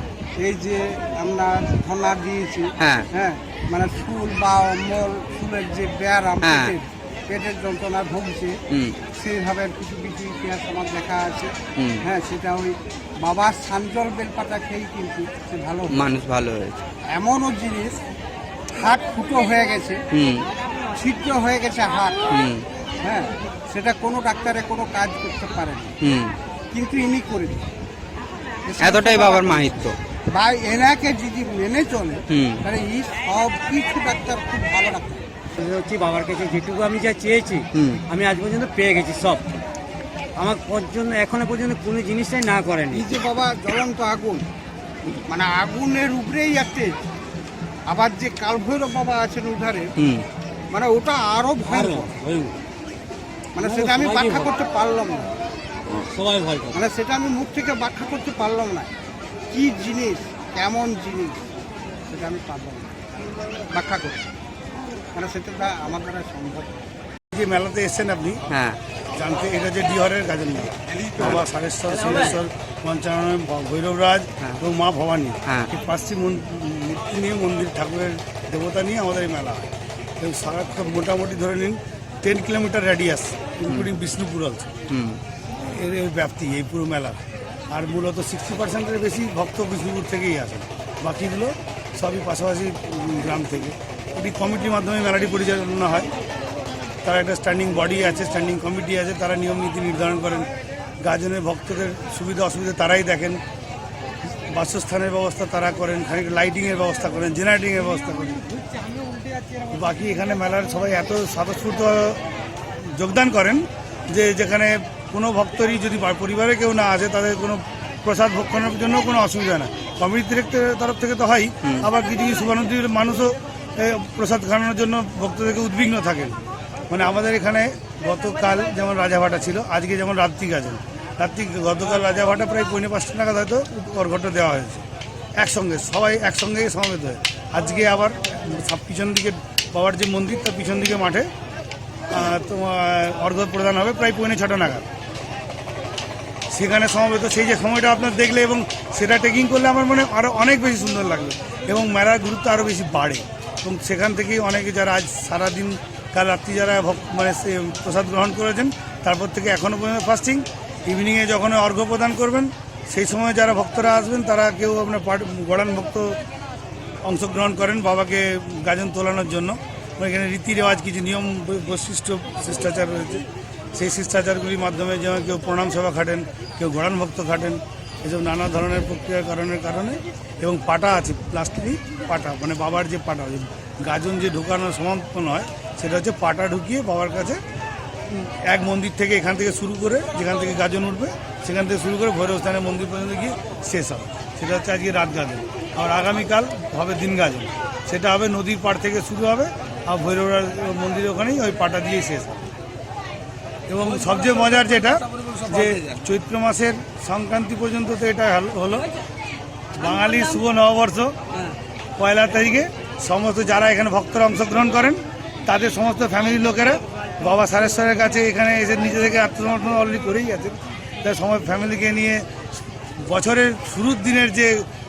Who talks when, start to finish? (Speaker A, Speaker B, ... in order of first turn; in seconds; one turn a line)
Speaker A: 0.4-8.6
Speaker B: 2.8-3.1
Speaker B: 6.4-6.8
Speaker B: 8.7-9.0
Speaker A: 9.1-16.1
Speaker B: 11.8-12.0
Speaker B: 15.9-16.9
Speaker A: 17.1-18.0
Speaker A: 18.7-20.0
Speaker B: 20.1-20.5
Speaker A: 20.9-22.3
Speaker B: 22.3-22.6
Speaker A: 23.0-25.9
Speaker B: 26.0-26.4
Speaker A: 26.7-27.7
Speaker A: 28.6-35.2
Speaker B: 28.8-30.0
Speaker B: 32.3-32.6
Speaker C: 35.5-39.5
Speaker B: 37.7-38.0
Speaker C: 40.4-43.1
Speaker A: 42.9-44.5
Speaker A: 45.2-47.0
Speaker A: 47.9-49.9
Speaker B: 50.0-50.2
Speaker A: 50.7-52.1
Speaker C: 51.7-52.6
Speaker A: 53.5-55.3
Speaker C: 53.6-54.5
Speaker C: 55.9-56.8
Speaker A: 56.7-58.9
Speaker A: 59.5-61.4
Speaker A: 62.1-62.9
Speaker A: 63.7-64.2
Speaker A: 65.2-66.7
Speaker D: 67.3-68.5
Speaker B: 68.5-68.8
Speaker D: 69.2-84.8
Speaker B: 84.9-85.2
Speaker D: 85.6-87.2
Speaker D: 87.7-96.1
Speaker D: 97.0-103.4
Speaker D: 104.3-108.5
Speaker D: 109.7-112.2
Speaker D: 112.8-141.3
Speaker B: 121.6-121.9
Speaker D: 142.1-144.9
Speaker D: 146.5-166.2
Speaker D: 167.0-187.4
Speaker D: 188.1-202.5
Speaker D: 203.7-208.9
Speaker D: 209.7-211.2
Speaker D: 212.0-222.4
Speaker D: 223.0-224.7